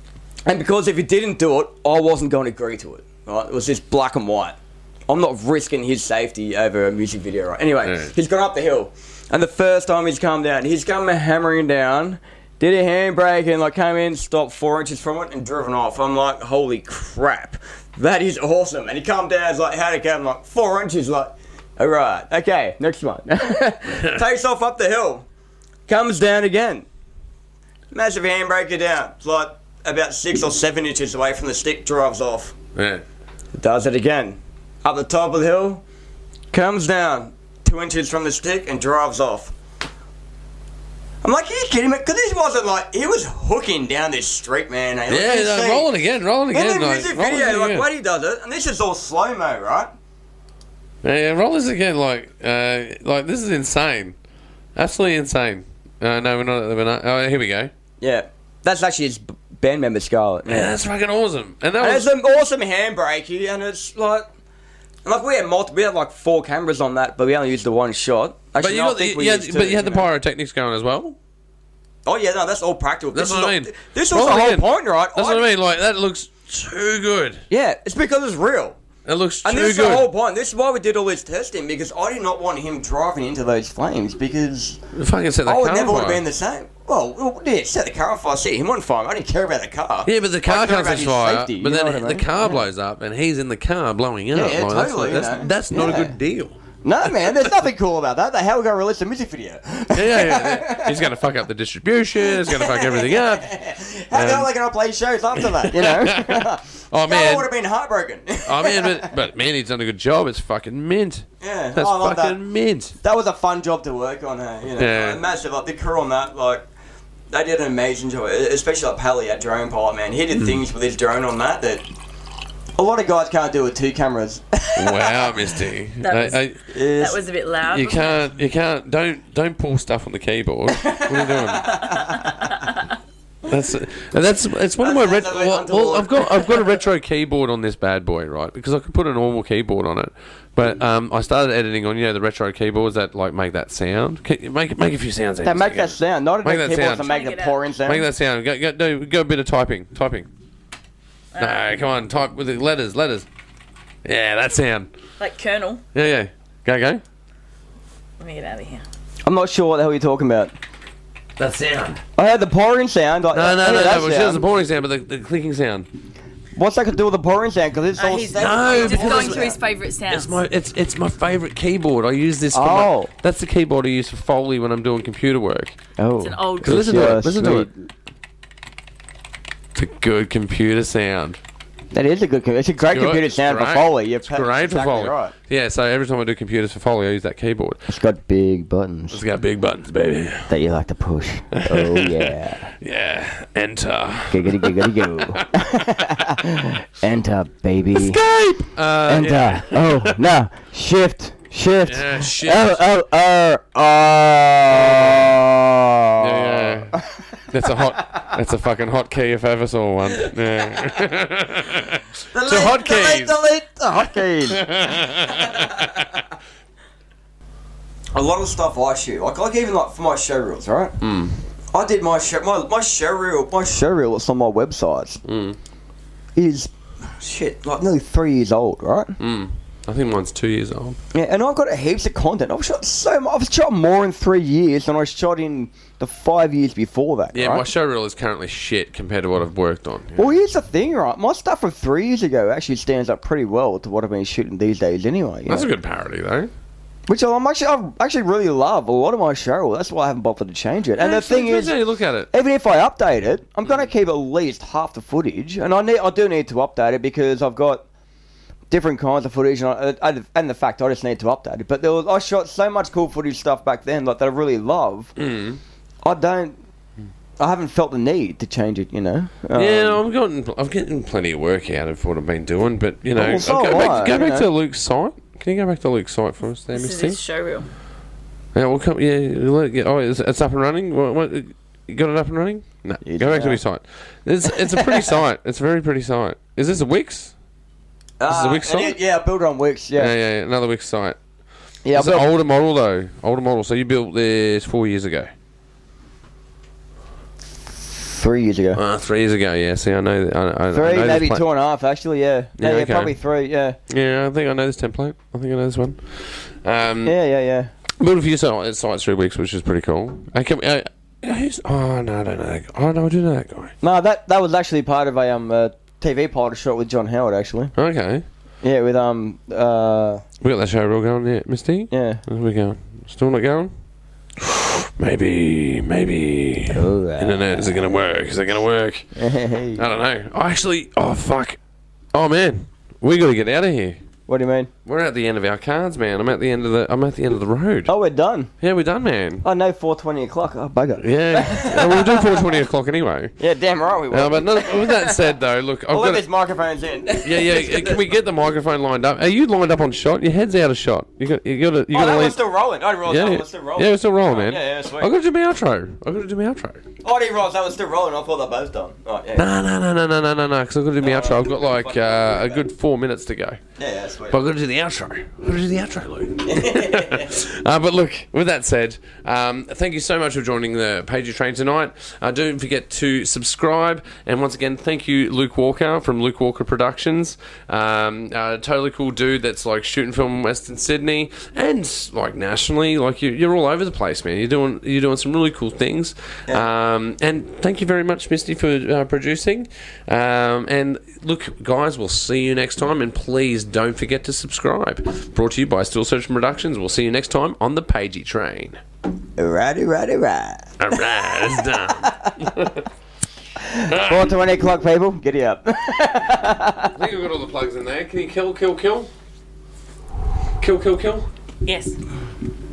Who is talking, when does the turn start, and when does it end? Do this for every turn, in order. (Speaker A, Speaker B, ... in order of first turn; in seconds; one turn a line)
Speaker A: 0.5-4.6
Speaker A: 5.1-25.3
Speaker B: 7.8-8.1
Speaker A: 25.9-26.9
Speaker A: 27.9-32.5
Speaker B: 32.8-33.0
Speaker A: 33.5-35.8
Speaker A: 36.5-39.5
Speaker A: 41.2-45.9
Speaker B: 45.1-47.9
Speaker A: 46.5-49.9
Speaker B: 51.0-54.2
Speaker B: 54.8-57.7
Speaker A: 58.0-60.8
Speaker B: 60.5-62.1
Speaker A: 61.8-64.3
Speaker A: 65.0-70.1
Speaker B: 68.6-71.2
Speaker A: 72.0-75.5
Speaker B: 73.1-77.4
Speaker A: 77.5-78.8
Speaker B: 79.0-80.1
Speaker A: 79.4-84.8
Speaker B: 84.9-86.2
Speaker A: 85.5-92.5
Speaker B: 90.0-97.5
Speaker A: 94.3-96.1
Speaker A: 96.8-101.1
Speaker B: 99.9-103.5
Speaker A: 102.2-109.1
Speaker B: 104.1-104.5
Speaker B: 105.4-107.5
Speaker B: 108.5-113.0
Speaker A: 111.4-112.4
Speaker A: 113.0-116.7
Speaker B: 114.8-115.2
Speaker A: 117.3-121.8
Speaker B: 120.3-120.6
Speaker A: 122.8-125.3
Speaker B: 124.8-126.6
Speaker C: 126.0-126.4
Speaker A: 126.7-127.2
Speaker C: 127.0-128.3
Speaker B: 127.7-132.0
Speaker A: 130.7-132.7
Speaker B: 133.4-147.1
Speaker A: 134.8-136.8
Speaker A: 145.4-148.1
Speaker C: 146.9-147.6
Speaker B: 147.8-150.3
Speaker C: 151.3-151.7
Speaker B: 151.4-153.3
Speaker B: 154.0-154.9
Speaker C: 155.2-155.8
Speaker B: 155.9-157.0
Speaker C: 158.2-158.8
Speaker A: 159.2-160.5
Speaker B: 161.4-162.0
Speaker A: 162.2-164.5
Speaker B: 163.3-165.9
Speaker A: 166.6-169.6
Speaker C: 168.0-170.3
Speaker B: 168.4-169.6
Speaker B: 170.1-175.8
Speaker A: 172.5-173.1
Speaker A: 176.0-177.8
Speaker C: 176.2-176.9
Speaker B: 176.6-177.7
Speaker B: 179.8-181.4
Speaker A: 181.9-185.3
Speaker B: 182.9-187.8
Speaker A: 187.9-189.2
Speaker B: 189.1-190.5
Speaker A: 190.5-192.7
Speaker B: 191.6-196.4
Speaker A: 194.3-198.2
Speaker B: 197.9-200.2
Speaker A: 199.0-208.3
Speaker B: 201.9-202.8
Speaker B: 204.7-205.4
Speaker B: 206.2-207.0
Speaker B: 207.5-213.4
Speaker A: 210.2-211.0
Speaker A: 212.3-216.3
Speaker B: 214.5-216.1
Speaker A: 218.1-221.0
Speaker B: 221.0-221.4
Speaker A: 221.7-225.2
Speaker B: 225.2-225.6
Speaker A: 226.4-229.2
Speaker B: 229.2-231.0
Speaker A: 231.1-237.7
Speaker B: 237.3-240.3
Speaker A: 240.2-245.7
Speaker B: 245.5-246.5
Speaker A: 247.1-251.8
Speaker B: 251.0-252.3
Speaker A: 252.3-257.8
Speaker A: 258.7-265.1
Speaker B: 265.2-265.6
Speaker A: 266.0-266.6
Speaker A: 267.4-270.0
Speaker B: 269.6-277.2
Speaker A: 273.1-274.5
Speaker C: 276.7-277.7
Speaker B: 278.5-287.3
Speaker A: 283.0-283.6
Speaker A: 284.5-285.1
Speaker A: 288.2-290.1
Speaker B: 288.3-289.0
Speaker B: 290.0-291.2
Speaker A: 291.9-292.3
Speaker B: 291.9-295.3
Speaker A: 297.9-298.8
Speaker B: 298.8-301.4
Speaker A: 300.7-303.8
Speaker B: 302.6-303.1
Speaker B: 303.9-307.1
Speaker A: 307.0-307.7
Speaker B: 308.0-313.7
Speaker A: 313.8-317.7
Speaker B: 317.8-318.2
Speaker A: 318.6-320.2
Speaker B: 320.4-323.7
Speaker A: 321.9-322.2
Speaker B: 324.4-329.1
Speaker A: 326.7-327.9
Speaker A: 329.2-329.9
Speaker B: 329.8-331.6
Speaker B: 332.1-334.0
Speaker A: 334.3-334.7
Speaker B: 334.9-337.9
Speaker A: 337.9-338.5
Speaker B: 338.6-339.4
Speaker A: 339.4-342.5
Speaker B: 341.0-343.3
Speaker A: 343.4-345.3
Speaker B: 344.1-346.2
Speaker A: 345.9-348.1
Speaker B: 347.2-352.4
Speaker A: 351.9-355.1
Speaker B: 353.1-356.8
Speaker A: 357.0-359.5
Speaker B: 359.4-363.6
Speaker A: 361.0-362.6
Speaker A: 363.8-364.4
Speaker B: 364.3-398.8
Speaker A: 366.4-367.5
Speaker A: 399.4-402.5
Speaker B: 400.8-402.9
Speaker A: 403.6-407.0
Speaker B: 403.9-404.3
Speaker B: 407.0-409.1
Speaker B: 410.6-411.3
Speaker C: 411.6-412.0